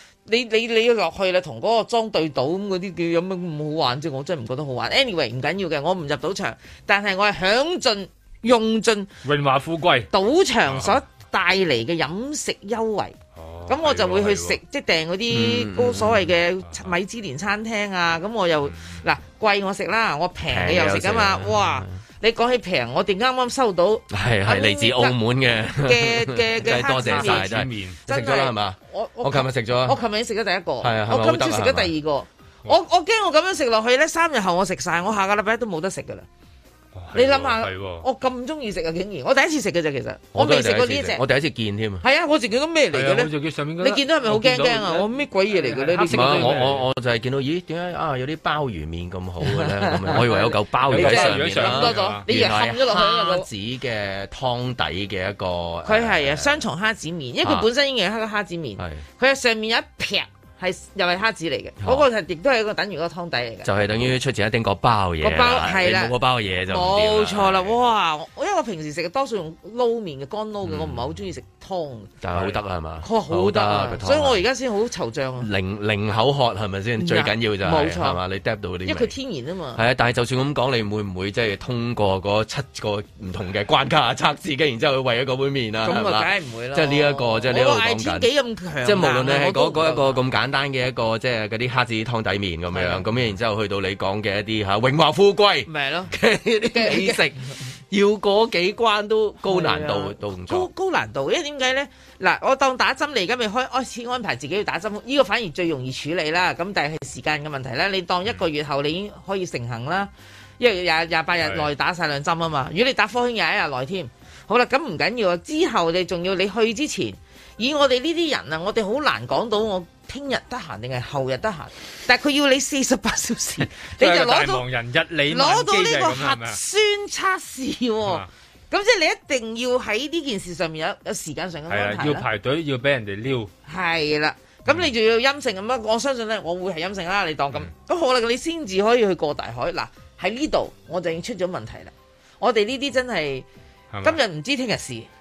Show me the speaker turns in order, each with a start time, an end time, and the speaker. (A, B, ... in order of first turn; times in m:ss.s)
0:00.3-0:09.1 A
0:09.2-0:10.1 B
0:10.1-0:13.2 A
0:10.7-0:11.0 B
0:13.4-0:14.6 B
0:13.7-0:25.2 A
0:15.3-0:16.3 C
0:20.5-0:22.0 C
0:24.1-0:30.0 C
0:25.7-0:36.3 A
0:26.7-0:28.0 B
0:30.8-0:31.9 C
0:37.0-0:38.0 B
0:37.1-0:41.2 A
0:40.3-0:42.0 C
0:42.0-0:46.6 A
0:42.9-0:46.9 B
0:46.1-0:56.6 C
0:49.5-0:53.5 A
0:50.9-0:52.3 B
0:55.8-1:03.7 A
0:57.4-0:57.7 C
0:58.8-0:59.0 C
1:01.8-1:02.1 C
1:03.6-1:07.8 C
1:05.2-1:06.2 A
1:06.7-1:12.2 A
1:10.6-1:11.1 C
1:12.2-1:14.4 C
1:13.0-1:15.5 A
1:15.4-1:19.1 C
1:17.0-1:18.2 A
1:18.8-1:19.8 A
1:19.8-1:28.3 C
1:25.8-1:30.2 A
1:28.8-1:40.7 C
1:32.7-1:33.0 A
1:35.7-1:36.1 A
1:36.7-1:37.2 A
1:39.5-2:04.6 A
1:51.4-1:51.7 B
2:03.8-2:06.6 B
2:05.3-2:12.3 A
2:11.7-2:13.5 B
2:13.7-2:23.5 A
2:23.9-2:24.2 B
2:24.0-2:25.1 A